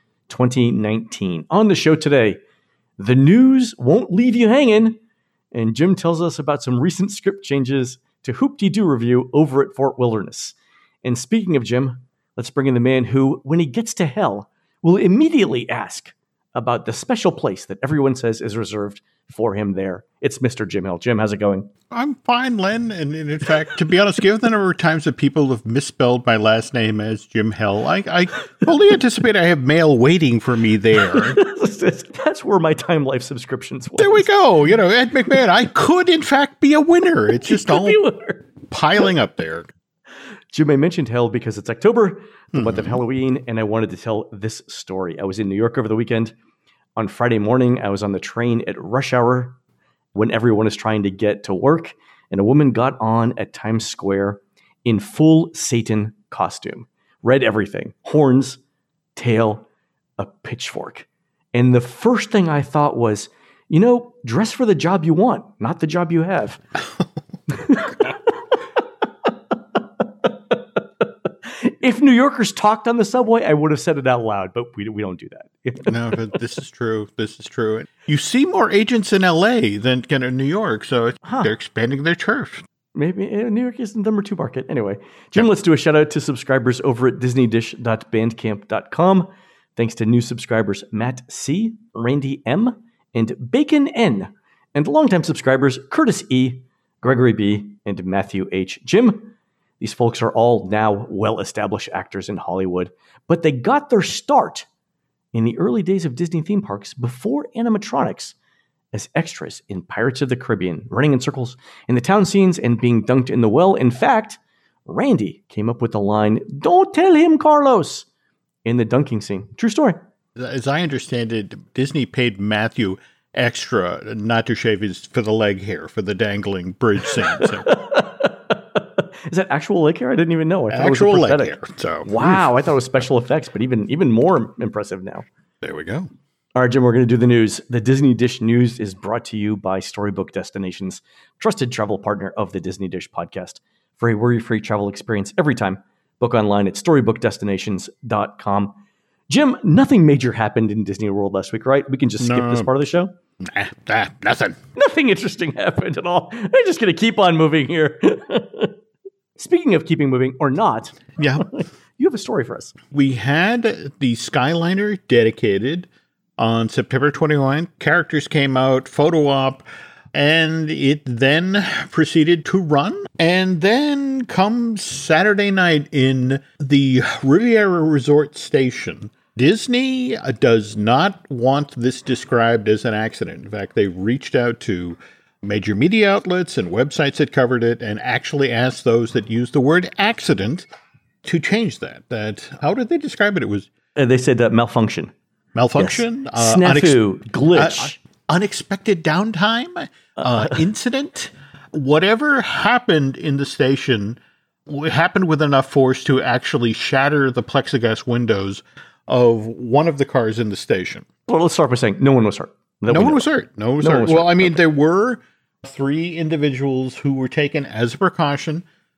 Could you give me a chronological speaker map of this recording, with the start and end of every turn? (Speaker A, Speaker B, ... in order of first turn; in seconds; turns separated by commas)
Speaker A: 0.3-2.4, Speaker A: 3.0-5.0, Speaker A: 5.5-21.7, Speaker B: 21.9-31.4, Speaker A: 31.0-34.3, Speaker B: 34.0-38.0, Speaker A: 37.5-38.5, Speaker B: 38.6-39.7, Speaker A: 40.5-46.3, Speaker B: 42.5-43.0, Speaker A: 47.0-49.6, Speaker A: 50.1-58.6, Speaker A: 59.2-59.6, Speaker A: 60.2-66.6, Speaker A: 67.5-68.4, Speaker A: 70.2-76.0, Speaker B: 75.9-82.6, Speaker A: 81.2-81.5, Speaker A: 83.0-104.7, Speaker A: 105.3-108.3, Speaker A: 108.9-118.1, Speaker A: 118.7-120.0, Speaker B: 120.4-127.7, Speaker A: 127.3-131.5, Speaker B: 130.7-132.5, Speaker A: 132.0-135.3, Speaker B: 135.6-136.1, Speaker A: 136.6-148.8, Speaker A: 149.3-153.2, Speaker B: 152.2-152.7, Speaker B: 153.4-154.6, Speaker A: 154.8-158.8, Speaker A: 159.4-162.8, Speaker B: 161.2-161.5, Speaker B: 162.9-190.7, Speaker B: 191.2-193.7, Speaker A: 194.0-195.1, Speaker B: 195.6-197.0, Speaker A: 195.8-198.0, Speaker B: 197.6-211.1, Speaker A: 211.3-213.3, Speaker B: 212.9-218.7, Speaker A: 213.8-214.6